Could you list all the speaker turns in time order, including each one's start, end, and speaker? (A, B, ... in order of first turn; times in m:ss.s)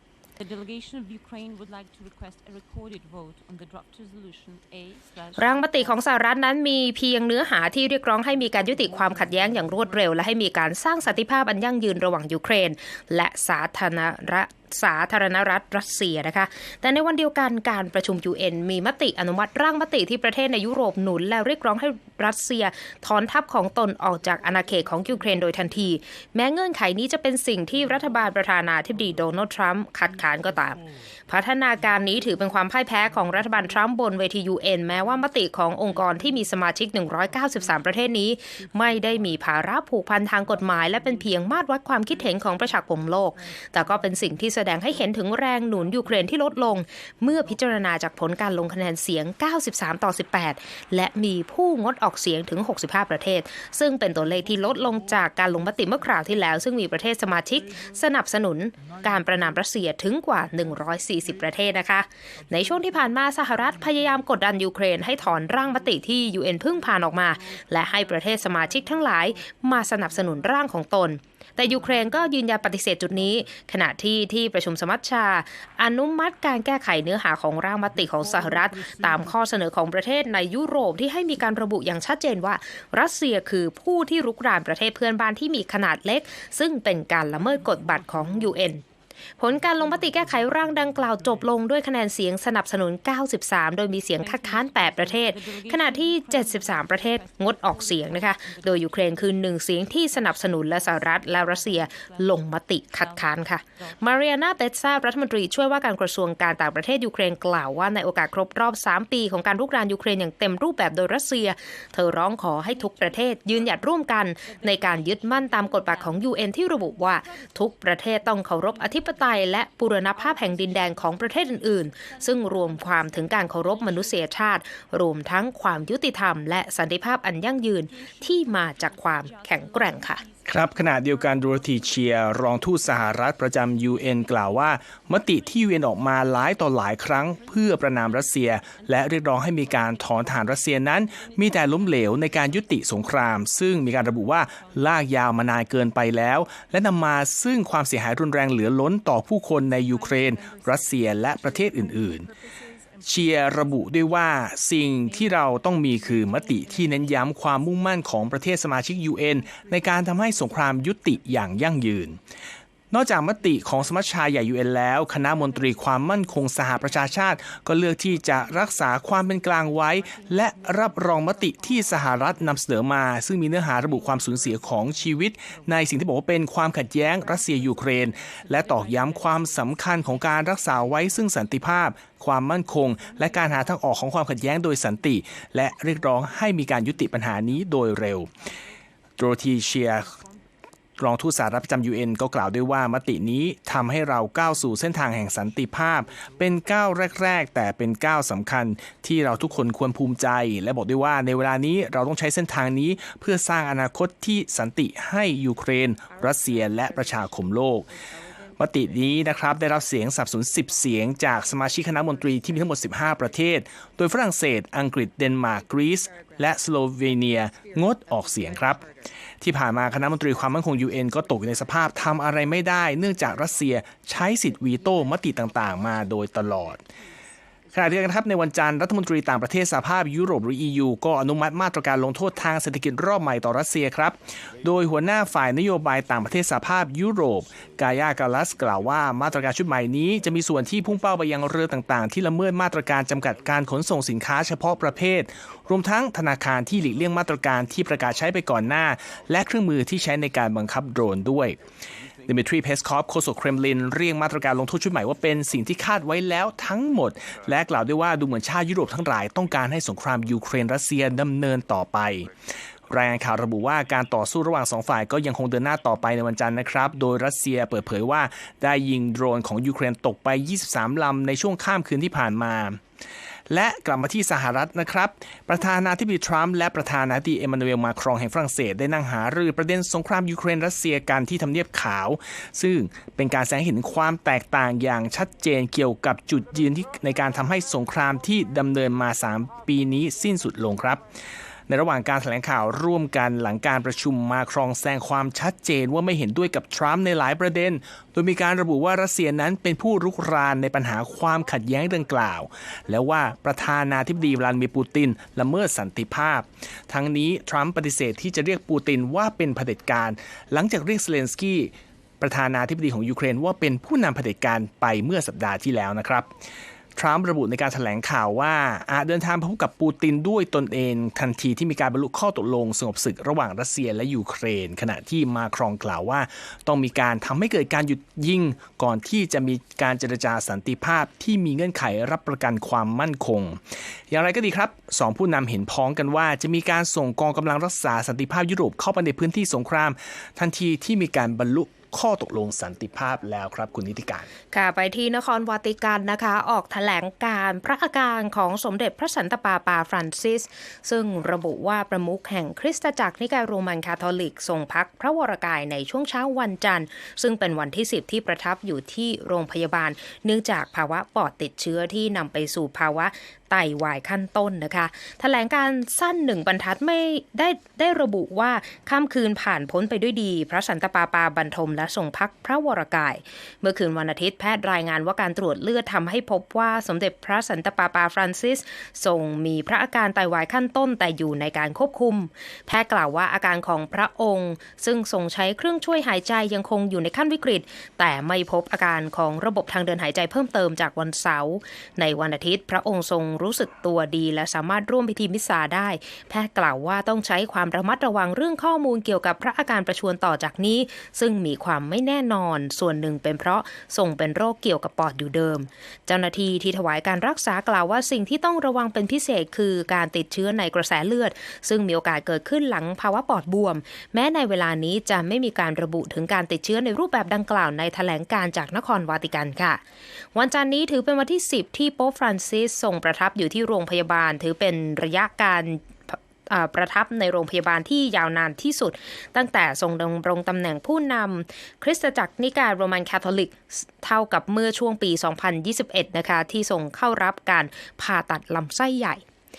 0:00.4-0:06.0 A
0:05.4-1:28.8 B
0:08.2-0:11.3 A
0:24.5-0:25.8 A
0:31.9-0:32.2 A
0:33.0-0:34.0 A
0:34.6-0:48.1 A
1:02.6-1:03.1 A
1:03.8-1:04.2 A
1:05.2-1:10.6 A
1:11.6-1:13.5 A
1:27.5-1:28.6 A
1:29.4-2:10.2 B
1:29.5-1:31.5 A
1:34.2-1:44.2 A
1:52.5-2:05.5 A
2:06.4-2:06.8 A
2:07.4-2:26.7 A
2:10.4-2:32.3 C
2:29.7-2:42.0 A
2:33.0-2:42.2 C
2:42.9-3:08.3 C
2:43.3-2:52.8 A
2:53.4-3:08.8 A
3:09.2-3:10.1 C
3:09.3-3:10.4 A
3:11.0-3:28.0 C
3:11.3-3:11.7 A
3:16.1-3:17.1 A
3:25.7-3:33.1 A
3:28.6-3:38.8 C
3:38.2-3:38.8 A
3:39.4-3:46.8 C
3:44.2-3:47.1 A
3:47.7-4:11.6 C
4:12.2-4:22.3 C
4:22.9-4:32.8 C
4:33.5-4:51.0 C
4:51.7-5:16.3 C
5:17.0-5:44.3 C
5:44.5-6:59.8 B
7:00.3-7:19.2 B